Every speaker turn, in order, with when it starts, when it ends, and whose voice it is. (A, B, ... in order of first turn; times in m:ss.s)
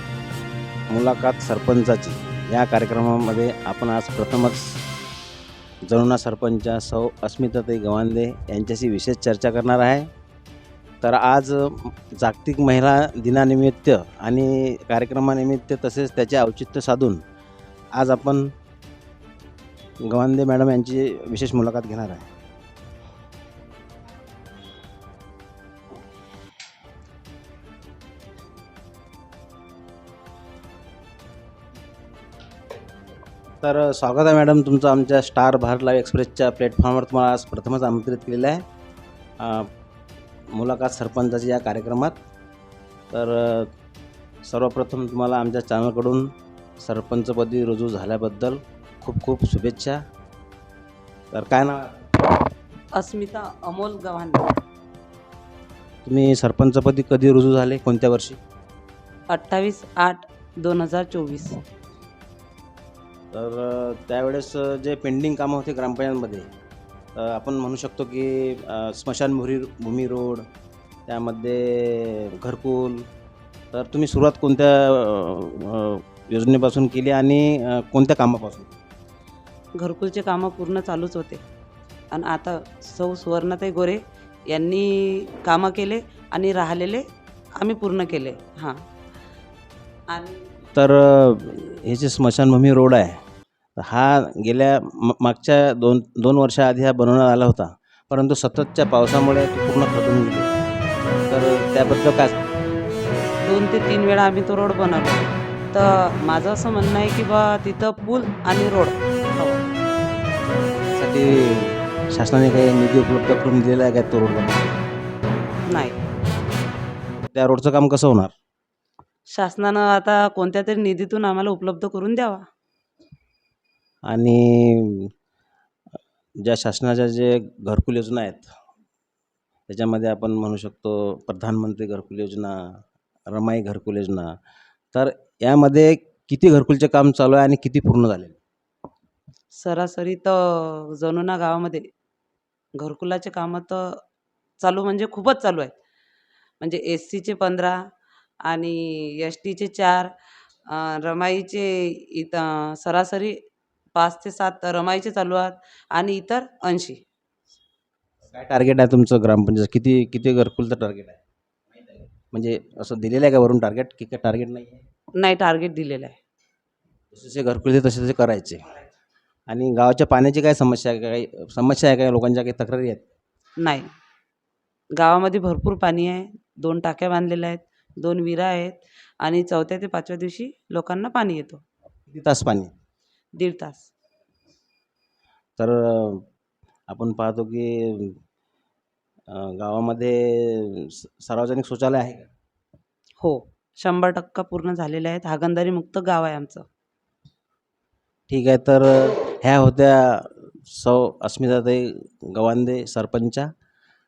0:00.9-0:04.8 A
0:05.9-0:10.1 A
0:11.0-0:17.2 A
0:17.9-0:18.5 A
0:20.0-0:22.3 A
0:33.6-0:38.6 A
0:39.4-0:39.7 A
0:40.5-0:42.2 A
0:43.1-0:43.7 A
0:44.4-0:50.0 A
0:51.3-0:52.1 A
0:53.0-0:54.5 B
0:56.0-0:58.4 A
0:59.3-1:01.6 B
1:03.3-1:06.5 A
1:07.2-1:10.4 A
1:11.1-1:13.1 A
1:13.7-1:18.7 A
1:19.8-1:21.4 B
1:22.1-1:27.0 B
1:27.6-1:28.8 B
1:30.1-1:30.5 B
1:30.8-1:33.2 A
1:33.8-1:40.5 A
1:41.3-1:42.4 A
1:43.4-1:49.6 B
1:51.0-1:54.8 A
1:55.7-1:56.0 B
1:57.2-1:58.3 A
1:59.4-2:02.4 B
2:04.1-2:05.1 A
2:06.4-2:08.5 A
2:09.7-2:14.3 A
2:14.9-2:18.4 A
2:19.6-2:21.9 B
2:22.8-2:24.0 B
2:24.6-2:25.8 B
2:26.6-2:27.8 B
2:28.4-2:30.1 B
2:30.7-2:33.4 B
2:34.0-2:37.0 B
2:38.3-2:41.2 A
2:42.3-2:44.8 A
2:45.2-2:46.2 B
2:47.1-2:48.7 A
2:49.5-2:53.1 A
2:53.6-2:53.9 B
2:55.0-3:01.6 B
3:02.1-3:02.7 A
3:03.4-3:03.9 B
3:05.6-3:06.2 A
3:06.9-3:08.2 A
3:09.3-3:12.3 A
3:13.2-3:16.6 B
3:18.3-3:23.5 A